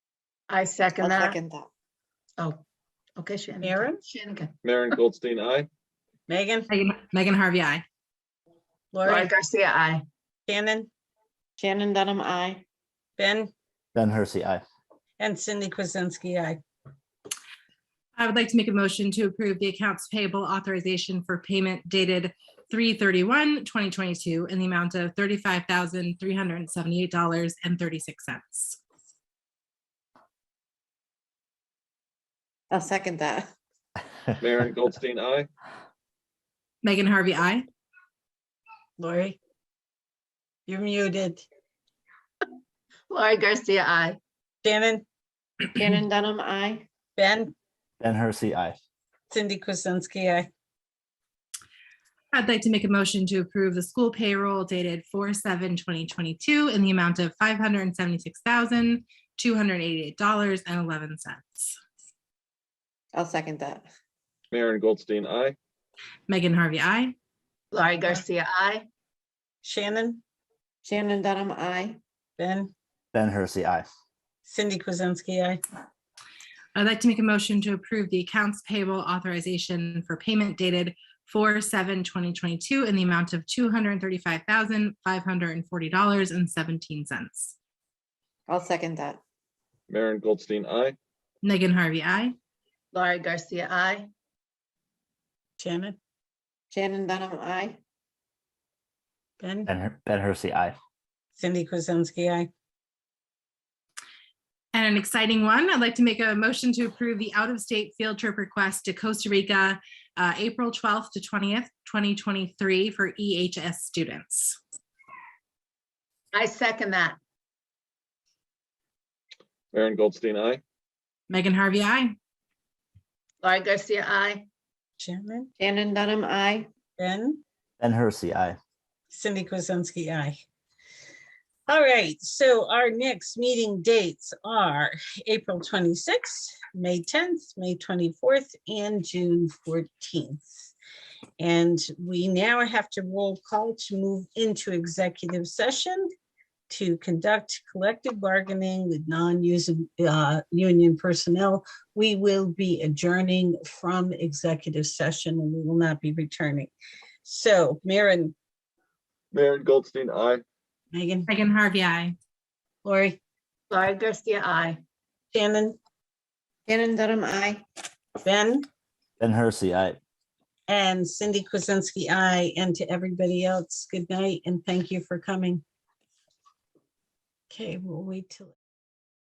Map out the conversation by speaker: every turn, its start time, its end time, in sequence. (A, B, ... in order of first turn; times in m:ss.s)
0:00.5-0:01.4 A
0:01.0-0:01.7 B
0:03.2-0:04.5 A
0:03.6-0:04.0 C
0:04.6-0:05.7 D
0:06.3-0:06.7 C
0:06.7-0:07.8 E
0:08.9-0:09.3 C
0:09.0-0:10.0 A
0:10.5-0:10.9 C
0:11.6-0:12.6 B
0:13.2-0:13.5 C
0:13.9-0:14.6 F
0:15.2-0:16.6 C
0:18.2-0:28.8 E
0:32.7-0:33.5 B
0:34.4-0:35.5 D
0:36.8-0:37.6 E
0:39.0-0:39.4 C
0:40.7-0:41.4 C
0:43.1-0:44.2 A
0:44.6-0:45.0 C
0:45.7-0:46.8 B
0:47.2-0:47.5 C
0:48.0-0:48.8 F
0:49.3-0:50.5 C
0:52.3-1:01.8 E
1:03.1-1:03.8 B
1:04.5-1:05.6 D
1:06.3-1:07.2 E
1:07.7-1:08.9 A
1:09.6-1:10.2 C
1:10.8-1:12.0 B
1:12.4-1:12.7 C
1:13.1-1:13.9 F
1:14.4-1:15.6 C
1:16.7-1:27.6 E
1:28.5-1:29.2 B
1:29.9-1:31.0 D
1:31.4-1:32.3 E
1:32.9-1:34.1 A
1:35.6-1:36.0 C
1:36.7-1:37.8 B
1:39.4-1:39.7 C
1:39.7-1:40.8 F
1:41.4-1:42.5 C
1:44.7-1:54.6 E
1:56.3-1:57.2 A
1:59.7-2:00.6 D
2:01.3-2:02.1 E
2:03.4-2:04.4 A
2:05.0-2:05.5 C
2:05.6-2:06.7 B
2:07.0-2:07.4 C
2:07.8-2:08.6 F
2:09.1-2:10.4 C
2:11.7-2:20.7 C
2:21.4-2:26.1 C
2:26.7-2:36.7 C
2:37.2-2:38.3 C
2:39.3-2:40.4 D
2:40.9-2:41.3 C
2:41.3-2:42.1 E
2:42.8-2:43.2 C
2:43.7-2:44.8 A
2:45.3-2:45.8 C
2:46.7-2:47.6 B
2:48.2-2:48.7 C
2:49.2-2:50.0 F
2:50.7-2:55.6 C
2:57.5-2:58.5 C